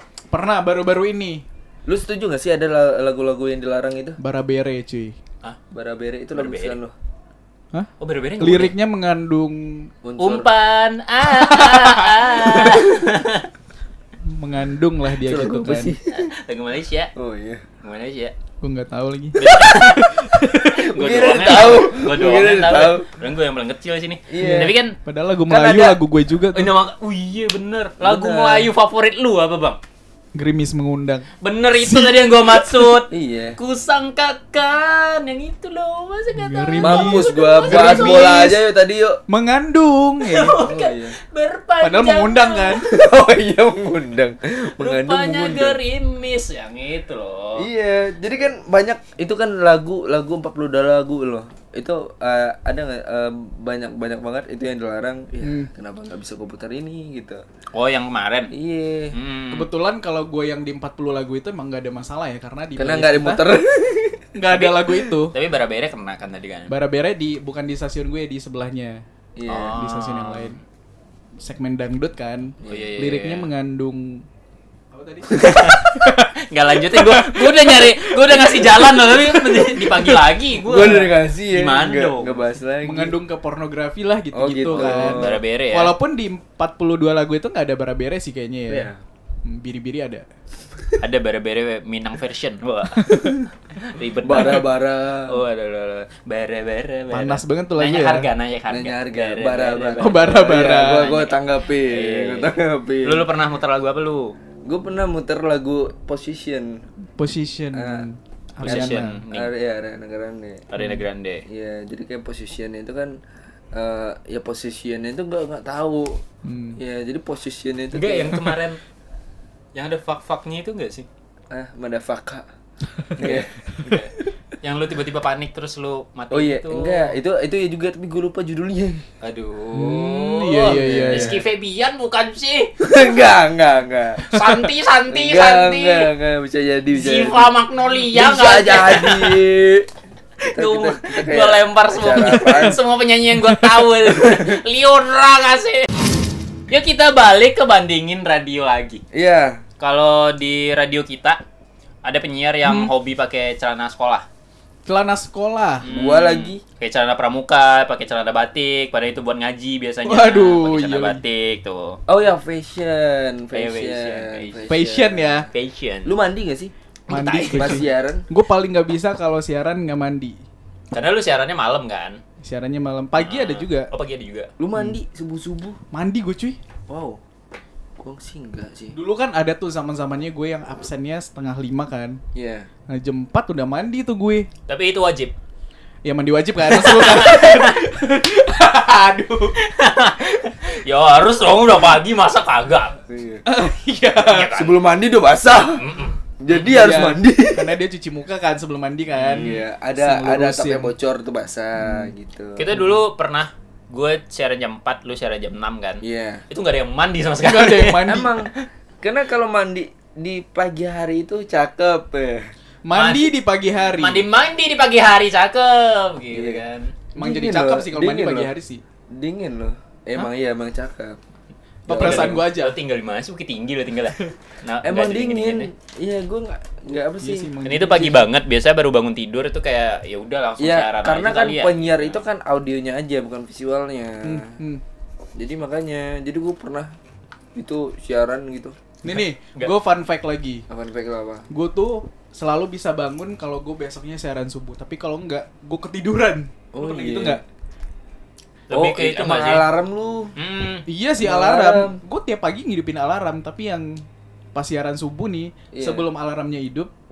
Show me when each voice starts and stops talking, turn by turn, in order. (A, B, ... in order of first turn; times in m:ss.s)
0:00.3-0:01.4 A
0:01.9-0:04.2 B
0:04.2-0:05.2 A
0:05.7-0:06.9 B
0:06.4-0:06.8 C
0:07.7-0:09.9 A
0:08.0-0:08.7 C
0:10.0-0:10.5 B
0:10.2-0:13.5 C
0:12.3-0:13.0 B
0:14.3-0:15.9 A
0:15.2-0:16.3 B
0:16.1-0:17.1 C
0:17.2-0:17.7 B
0:17.8-0:18.3 C
0:18.6-0:20.9 A
0:19.4-0:25.0 C
0:20.9-0:23.1 B
0:24.3-0:24.8 B
0:24.4-0:26.7 A
0:25.5-0:26.0 B
0:26.5-0:29.8 C
0:28.0-0:28.7 B
0:30.4-0:31.3 A
0:31.4-0:38.5 C
0:31.8-0:32.9 A
0:33.1-0:33.6 B
0:36.4-0:38.5 A
0:36.8-0:39.2 B
0:39.3-0:40.6 A
0:40.2-0:42.8 C
0:40.6-0:41.2 B
0:41.8-0:42.8 A
0:42.8-0:45.8 B
0:44.8-0:47.7 C
0:47.6-0:57.4 B
0:55.4-0:55.7 A
0:57.7-0:58.5 C
0:58.5-0:59.2 B
0:59.1-0:59.7 C
0:59.5-1:03.4 A
1:02.8-1:04.2 B
1:04.4-1:05.4 A
1:04.5-1:06.7 C
1:06.7-1:09.0 A
1:09.4-1:09.8 B
1:09.5-1:10.5 C
1:09.8-1:10.6 A
1:11.4-1:14.3 A
1:12.6-1:12.9 B
1:12.7-1:13.5 C
1:14.9-1:20.2 A
1:15.3-1:22.4 C
1:20.5-1:23.2 B
1:22.8-1:28.9 A
1:24.3-1:25.4 B
1:24.7-1:25.9 C
1:28.7-1:29.0 B
1:29.4-1:30.2 A
1:31.0-1:34.7 C
1:33.0-1:33.4 A
1:34.2-1:35.4 B
1:35.3-1:42.5 C
1:37.1-1:38.3 A
1:38.7-1:43.3 B
1:40.0-1:41.1 A
1:43.0-1:44.4 C
1:44.7-1:46.8 B
1:47.2-1:49.2 A
1:47.7-1:48.1 B
1:48.6-1:49.5 C
1:48.6-1:50.7 B
1:50.7-1:51.4 C
1:51.5-1:53.2 B
1:53.7-1:56.2 B
1:56.4-1:56.8 A
1:56.8-1:58.6 B
1:57.9-1:58.8 C
1:59.8-2:01.1 C
2:01.5-2:02.5 B
2:03.2-2:03.5 B
2:03.2-2:07.1 C
2:06.3-2:09.1 B
2:09.2-2:12.9 C
2:09.7-2:11.4 B
2:09.7-2:11.4 A
2:12.8-2:17.5 B
2:14.2-2:16.1 C
2:16.9-2:19.4 C
2:18.1-2:19.9 B
2:20.4-2:25.9 C
2:20.5-2:22.8 B
2:24.0-2:24.6 B
2:26.7-2:29.0 C
2:29.1-2:29.6 B
2:29.8-2:31.4 C
2:32.0-2:34.3 C
2:32.6-2:32.9 A
2:34.9-2:35.9 A
2:35.8-2:42.0 C
2:35.9-2:36.6 B
2:40.1-2:41.2 A
2:42.1-2:45.4 B
2:43.5-2:44.7 C
2:44.7-2:45.5 A
2:45.5-2:46.1 C
2:46.0-2:46.7 B
2:47.1-2:47.8 C
2:47.1-2:50.4 A
2:47.5-2:48.3 B
2:50.9-2:52.2 C
2:52.4-2:53.9 A
2:53.2-2:54.5 C
2:54.6-2:55.8 B
2:55.9-2:56.6 A
2:56.9-2:57.2 B
2:58.0-2:59.0 B
2:58.9-3:02.2 A
3:02.4-3:02.7 B
3:02.9-3:04.5 A
3:04.7-3:05.3 C
3:06.0-3:09.6 A
3:06.7-3:07.8 C
3:09.6-3:13.0 C
3:13.1-3:13.4 B
3:13.5-3:14.5 A
3:14.2-3:14.8 C
3:14.5-3:17.8 B
3:15.6-3:16.8 C
3:16.7-3:20.9 A
3:19.2-3:19.6 C
3:19.4-3:22.9 B
3:21.8-3:22.1 A
3:22.6-3:28.6 C
3:26.0-3:26.4 B
3:27.4-3:28.3 A
3:28.0-3:28.5 B
3:29.0-3:32.5 B
3:32.8-3:34.3 A
3:32.9-3:33.3 C
3:33.9-3:36.9 C
3:36.3-3:36.6 B
3:37.2-3:38.8 A
3:37.2-3:38.5 B
3:39.1-3:41.2 B
3:41.9-3:42.4 B
3:41.9-3:42.8 A
3:41.9-3:45.7 C
3:44.8-3:47.5 B
3:47.2-3:48.3 A
3:47.6-3:52.2 C
3:50.6-3:54.5 B
3:54.2-3:54.8 A
3:55.4-3:56.9 B
3:57.6-3:58.8 B
3:59.0-4:00.6 A
3:59.1-3:59.7 C
4:00.7-4:01.5 B
4:01.5-4:07.4 A
4:06.7-4:07.4 B
4:08.7-4:09.7 C
4:08.7-4:10.3 B
4:10.4-4:10.8 C
4:10.9-4:14.0 A
4:11.2-4:12.0 B
4:14.6-4:16.9 A
4:15.7-4:16.0 B